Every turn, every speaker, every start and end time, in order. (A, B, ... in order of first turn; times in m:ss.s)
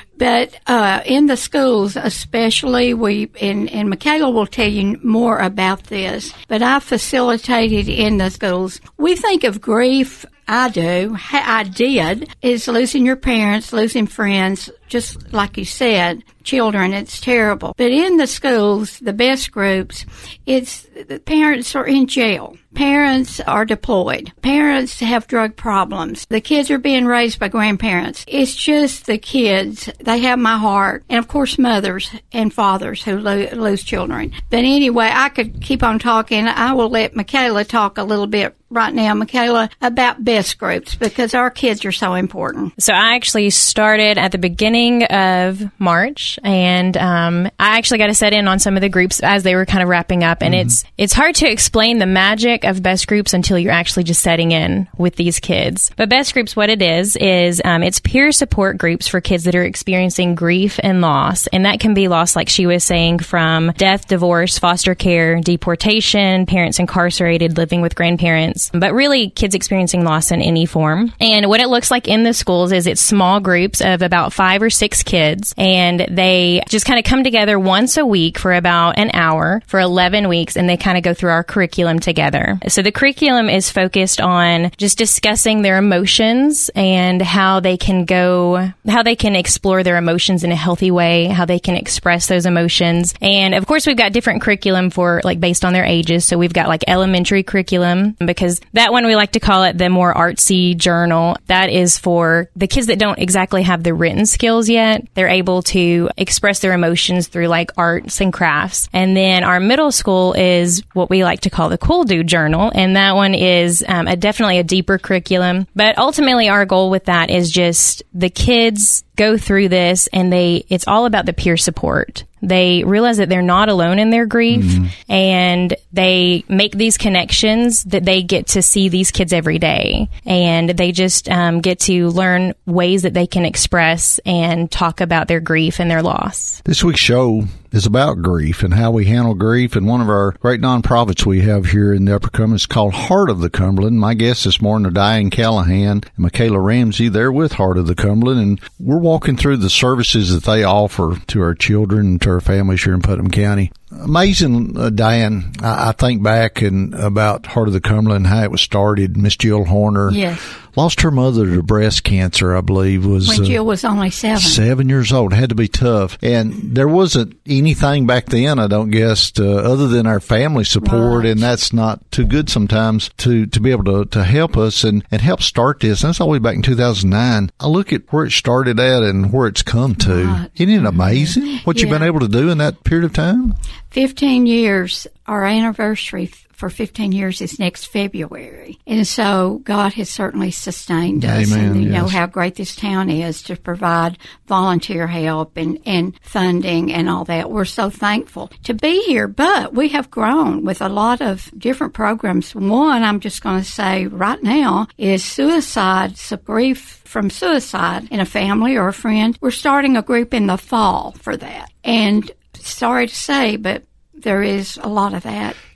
0:00.2-0:42.7 A
0:42.8-2:16.6 B
0:50.4-0:50.7 C
2:04.5-2:04.9 C
2:16.6-2:40.2 C
2:40.1-2:40.5 A
2:40.7-2:43.6 C
2:43.2-2:44.6 A
2:44.4-3:03.6 C
2:50.8-2:51.5 A
3:00.0-3:00.5 A
3:01.5-3:02.1 A
3:03.9-3:35.6 A
3:11.2-3:12.2 C